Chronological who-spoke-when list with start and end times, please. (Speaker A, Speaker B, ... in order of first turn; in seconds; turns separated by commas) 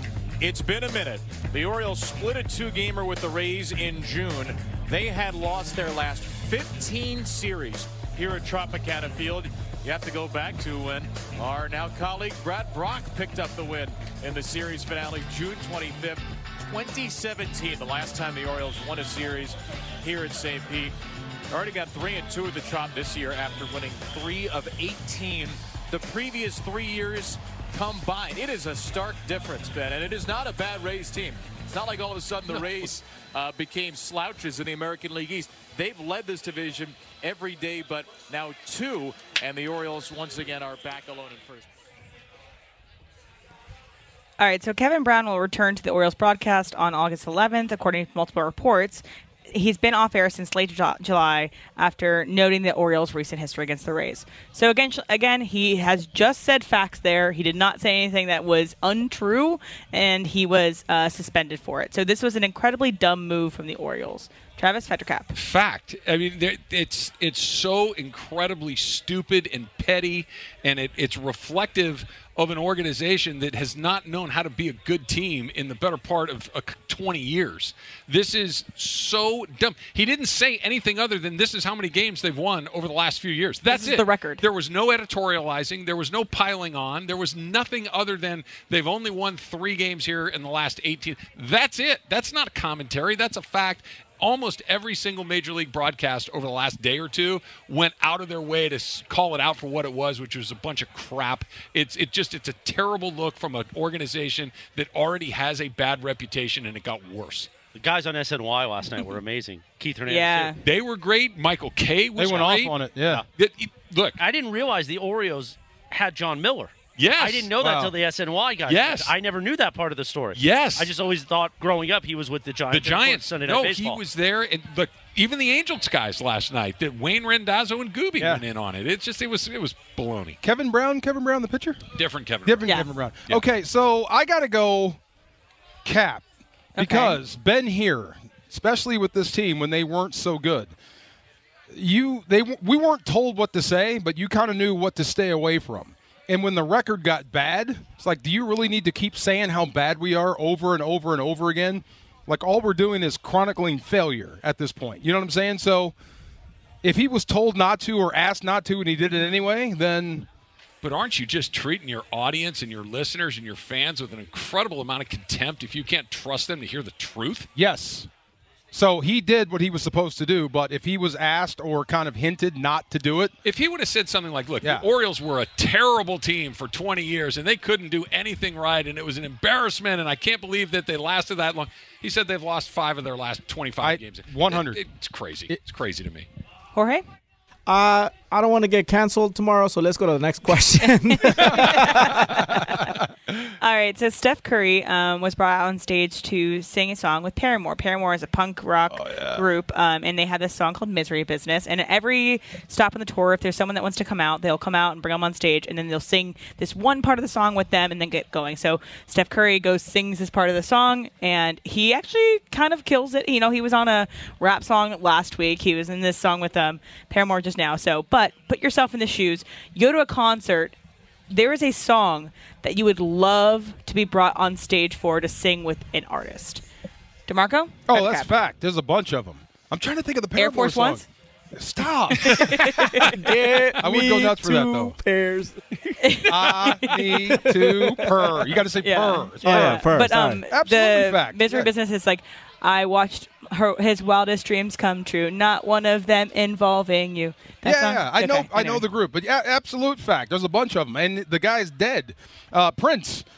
Speaker A: 0.4-20.9, Speaker A: 21.5-41.7, Speaker B: 44.4-65.3, Speaker C: 65.3-107.5, Speaker B: 83.7-84.4, Speaker D: 107.7-110.5, Speaker B: 110.1-110.6, Speaker C: 110.6-114.2, Speaker E: 112.2-113.2, Speaker D: 114.2-124.0, Speaker C: 117.0-117.5, Speaker E: 117.6-117.9, Speaker C: 118.7-119.1, Speaker C: 120.3-120.9, Speaker C: 122.7-130.4, Speaker E: 128.2-128.4, Speaker E: 130.4-131.8, Speaker C: 131.9-133.4, Speaker E: 132.4-135.0, Speaker E: 135.8-136.2, Speaker B: 136.8-137.2, Speaker E: 136.8-140.7, Speaker E: 141.7-155.9, Speaker E: 156.8-160.3, Speaker C: 160.8-167.5, Speaker E: 167.6-168.1, Speaker E: 168.7-173.3, Speaker C: 173.4-186.3, Speaker E: 183.8-184.8, Speaker B: 186.7-187.0, Speaker F: 187.7-192.8, Speaker B: 191.1-192.9, Speaker B: 193.4-220.8, Speaker E: 198.9-199.4, Speaker B: 221.3-226.6, Speaker B: 227.3-228.3, Speaker E: 227.9-232.7, Speaker B: 230.3-231.0, Speaker B: 232.2-233.3, Speaker F: 232.7-235.6, Speaker E: 233.8-234.9, Speaker B: 236.0-237.4, Speaker E: 236.3-239.9, Speaker F: 237.3-238.3, Speaker B: 238.8-248.8, Speaker F: 239.4-240.4, Speaker E: 240.5-241.7, Speaker E: 247.6-253.2